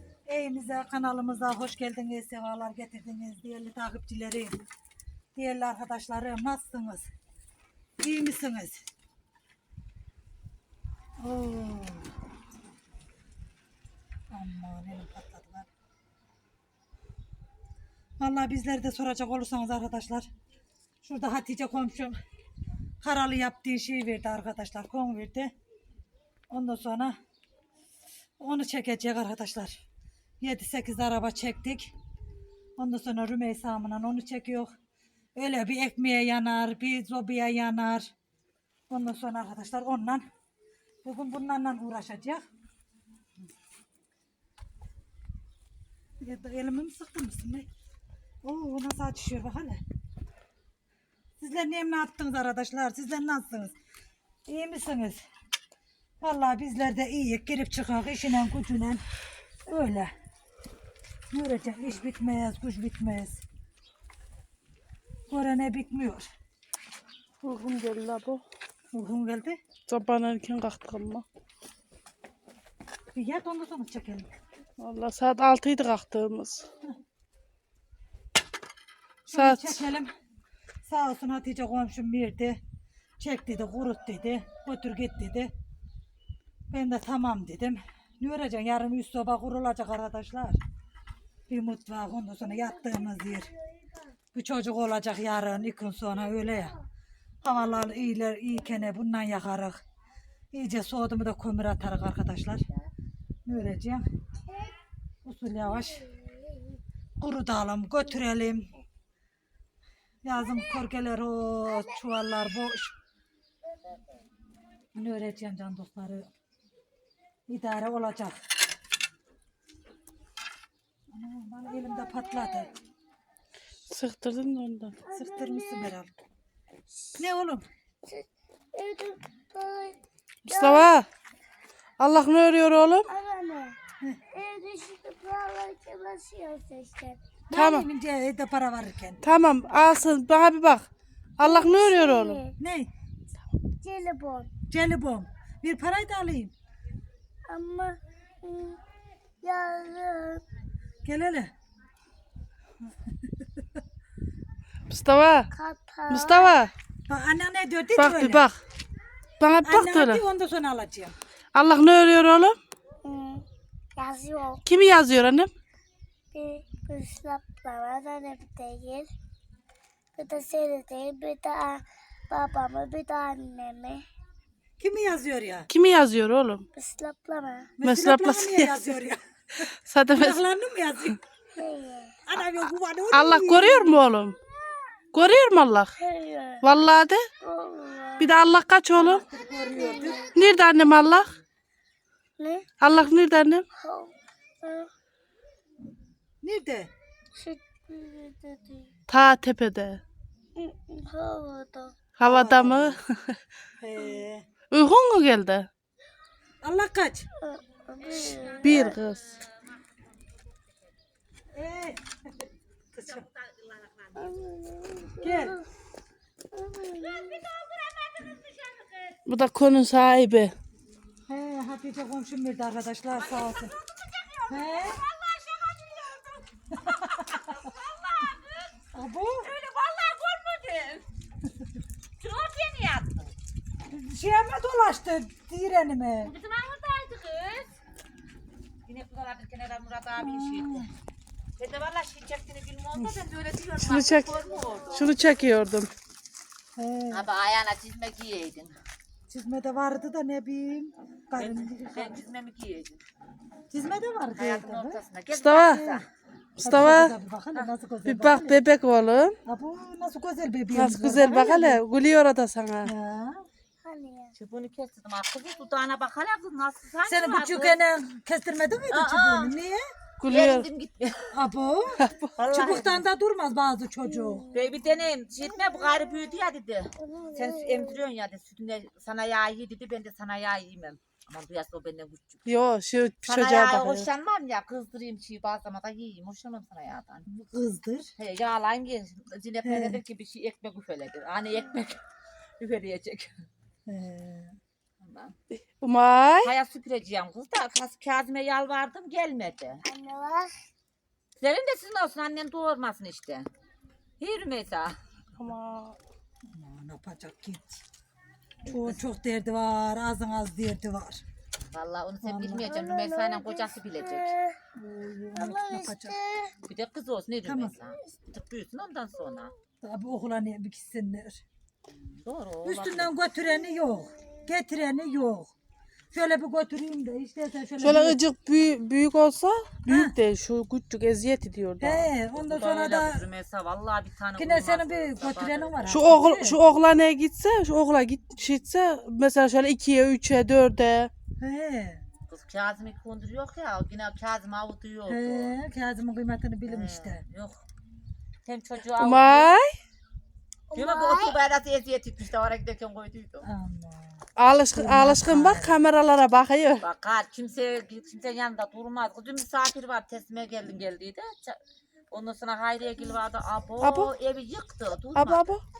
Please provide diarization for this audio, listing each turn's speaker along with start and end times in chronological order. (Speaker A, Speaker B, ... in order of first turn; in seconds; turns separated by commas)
Speaker A: 0.3-4.6, Speaker A: 5.3-7.1, Speaker A: 8.0-8.8, Speaker A: 11.2-12.1, Speaker A: 14.3-15.7, Speaker A: 18.2-20.3, Speaker A: 21.0-22.2, Speaker A: 23.0-25.5, Speaker A: 26.5-27.2, Speaker A: 28.4-29.8, Speaker A: 30.4-31.9, Speaker A: 32.8-34.7, Speaker A: 35.3-38.1, Speaker A: 38.9-40.2, Speaker A: 41.0-42.4, Speaker A: 46.2-47.7, Speaker A: 48.4-49.8, Speaker A: 51.4-53.7, Speaker A: 54.5-55.2, Speaker A: 56.2-59.0, Speaker A: 59.7-60.1, Speaker A: 61.3-63.4, Speaker A: 65.3-66.3, Speaker B: 67.4-68.4, Speaker A: 68.9-69.6, Speaker B: 69.9-71.2, Speaker A: 73.1-74.3, Speaker B: 74.8-76.7, Speaker A: 79.2-80.1, Speaker B: 79.3-79.8, Speaker A: 80.8-82.6, Speaker A: 83.2-85.5, Speaker A: 86.7-90.6, Speaker A: 91.5-93.5, Speaker C: 92.9-94.1, Speaker A: 94.3-96.8, Speaker A: 97.4-99.8, Speaker A: 100.5-102.7, Speaker A: 103.5-104.0, Speaker C: 104.5-104.7, Speaker A: 105.2-106.0, Speaker C: 105.6-106.8, Speaker A: 107.2-108.7, Speaker A: 110.2-112.9, Speaker C: 111.7-112.0, Speaker C: 113.7-114.0, Speaker A: 114.9-116.3, Speaker A: 117.5-118.4, Speaker A: 121.1-122.7, Speaker B: 123.9-125.0, Speaker C: 125.1-125.9, Speaker A: 125.1-126.1, Speaker A: 127.2-127.6, Speaker C: 128.0-130.9, Speaker B: 130.5-131.1, Speaker B: 132.0-133.1, Speaker C: 133.1-133.8, Speaker C: 134.3-137.2, Speaker A: 137.5-139.2, Speaker B: 137.5-137.9, Speaker B: 139.2-140.8, Speaker B: 141.4-142.4, Speaker C: 141.4-142.5, Speaker A: 142.6-142.9, Speaker C: 143.8-144.5, Speaker A: 144.7-146.5, Speaker C: 147.5-148.8, Speaker C: 149.4-150.4, Speaker A: 151.0-151.5, Speaker A: 153.2-153.6, Speaker B: 154.9-155.5, Speaker C: 155.5-156.7, Speaker B: 156.1-156.7, Speaker A: 157.1-158.5, Speaker B: 158.0-158.6, Speaker B: 159.4-160.2, Speaker A: 159.6-161.1, Speaker B: 161.5-162.6, Speaker C: 163.0-164.6, Speaker B: 164.7-165.5, Speaker C: 166.3-169.1, Speaker C: 170.2-174.0, Speaker A: 174.8-175.7, Speaker B: 175.7-176.6, Speaker C: 176.7-177.7, Speaker A: 177.8-181.2, Speaker B: 177.8-178.8, Speaker B: 179.9-180.4, Speaker C: 181.6-182.2, Speaker A: 182.2-184.0, Speaker B: 183.1-184.3, Speaker B: 185.1-185.9, Speaker C: 186.0-186.6, Speaker B: 186.6-187.2, Speaker C: 187.4-188.3, Speaker B: 188.2-189.2, Speaker A: 188.9-190.2, Speaker C: 189.7-190.5, Speaker B: 190.3-191.3, Speaker C: 192.4-192.7, Speaker B: 192.8-193.6, Speaker C: 193.8-194.9, Speaker A: 196.4-196.9, Speaker C: 197.4-198.9, Speaker B: 199.1-200.0, Speaker C: 200.6-202.0, Speaker B: 202.2-203.4, Speaker A: 202.2-203.0, Speaker A: 203.8-204.4, Speaker B: 204.7-205.7, Speaker A: 206.6-207.3, Speaker C: 207.5-208.9, Speaker D: 208.0-210.1, Speaker B: 208.6-209.2, Speaker A: 211.5-213.2, Speaker D: 213.0-214.4, Speaker C: 214.2-215.6, Speaker A: 215.2-215.6, Speaker C: 216.5-217.4, Speaker D: 216.9-219.2, Speaker B: 219.2-220.5, Speaker A: 221.3-223.7, Speaker D: 223.1-228.8, Speaker A: 224.5-225.0, Speaker A: 226.8-227.2, Speaker A: 228.9-229.5, Speaker D: 229.4-231.1, Speaker D: 232.2-233.3, Speaker A: 233.9-236.3, Speaker D: 236.2-237.7, Speaker D: 238.8-240.9, Speaker A: 240.2-240.9, Speaker D: 241.6-245.1, Speaker B: 243.8-244.3, Speaker B: 244.9-245.9, Speaker A: 246.8-247.2, Speaker D: 247.1-248.7, Speaker A: 249.3-252.2, Speaker D: 251.4-253.0, Speaker A: 253.7-255.0, Speaker D: 254.4-256.1, Speaker B: 255.4-255.8, Speaker A: 255.6-256.0, Speaker B: 256.6-257.1, Speaker A: 256.6-258.6, Speaker B: 258.0-259.4, Speaker A: 259.4-261.8, Speaker B: 260.7-262.9, Speaker A: 262.8-263.4, Speaker C: 263.8-264.3, Speaker D: 264.3-267.8, Speaker A: 267.1-269.9, Speaker D: 268.9-269.5, Speaker B: 270.2-270.7, Speaker D: 270.2-271.3, Speaker A: 271.3-274.5, Speaker B: 272.0-272.3, Speaker D: 272.4-273.0, Speaker C: 274.1-274.6, Speaker D: 274.5-282.4, Speaker C: 277.0-278.0, Speaker B: 282.4-284.1, Speaker D: 283.2-287.3, Speaker A: 287.2-288.1, Speaker D: 288.1-292.0, Speaker A: 289.6-290.0, Speaker D: 292.6-293.4, Speaker A: 293.9-294.5, Speaker D: 295.0-295.3, Speaker B: 295.8-296.5, Speaker D: 296.4-299.8, Speaker C: 299.8-300.5, Speaker D: 301.4-303.5, Speaker D: 304.2-305.0, Speaker B: 305.4-305.9, Speaker A: 306.5-307.8, Speaker A: 308.6-311.2, Speaker D: 311.7-314.3, Speaker A: 312.2-312.7, Speaker C: 312.6-314.6, Speaker A: 314.8-316.2, Speaker C: 315.3-316.5, Speaker D: 316.6-319.5, Speaker A: 317.4-317.7, Speaker A: 319.8-321.4, Speaker D: 321.9-323.1, Speaker A: 322.6-325.5, Speaker A: 326.1-328.2, Speaker B: 327.8-332.1, Speaker A: 329.9-330.1, Speaker A: 331.8-333.2, Speaker D: 332.3-335.9, Speaker A: 334.4-336.6, Speaker B: 335.9-341.1, Speaker A: 341.4-342.0, Speaker D: 342.3-345.5, Speaker A: 345.1-347.2, Speaker D: 346.7-347.6, Speaker D: 348.4-349.5, Speaker B: 349.0-349.8, Speaker C: 350.7-351.4, Speaker D: 350.7-353.5, Speaker A: 353.4-354.2, Speaker B: 354.4-356.8, Speaker A: 354.7-355.7, Speaker D: 356.8-361.6, Speaker D: 362.1-365.4, Speaker B: 363.8-364.1, Speaker B: 365.1-365.6